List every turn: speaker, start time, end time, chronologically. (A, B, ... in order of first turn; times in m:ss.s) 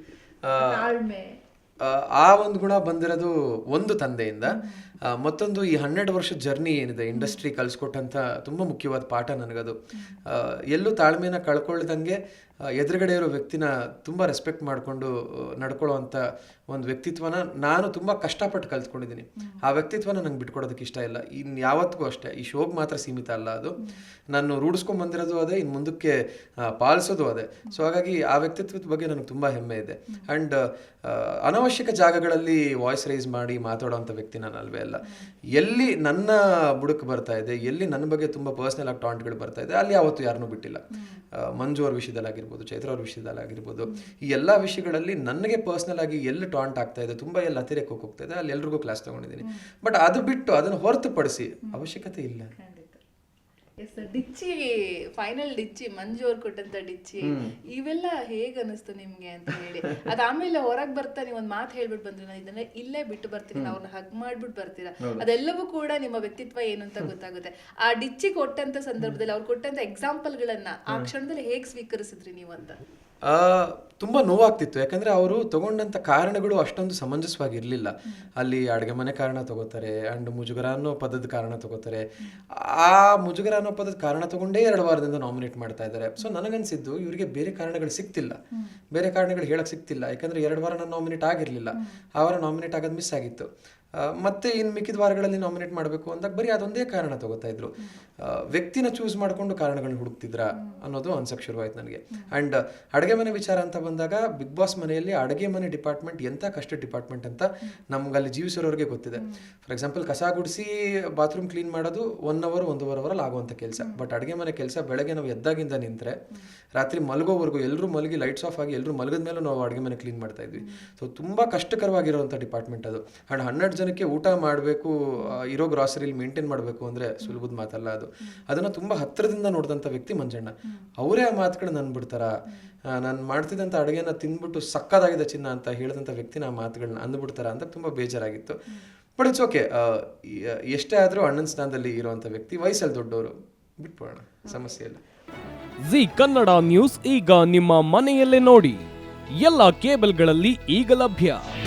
0:00.4-0:00.9 A
0:00.6-0:01.3 B
0:01.8-0:09.8 A
0:04.5-0:04.8 B
0:07.1-0:07.4 B
0:10.3-0:12.2 A
0:12.7-0:23.8 A
0:24.3-0:40.8 A
0:41.0-0:41.2 B
0:41.4-0:52.5 A
0:52.5-0:53.0 B
0:53.8-1:12.8 B
0:57.2-0:57.5 A
1:13.2-1:22.0 A
1:22.6-1:28.4 A
1:28.9-1:33.5 A
1:34.0-1:56.1 A
1:53.8-1:54.1 B
1:56.8-2:12.3 A
2:13.0-2:18.6 A
2:19.2-2:25.0 A
2:25.8-2:28.8 C
2:29.4-2:31.4 C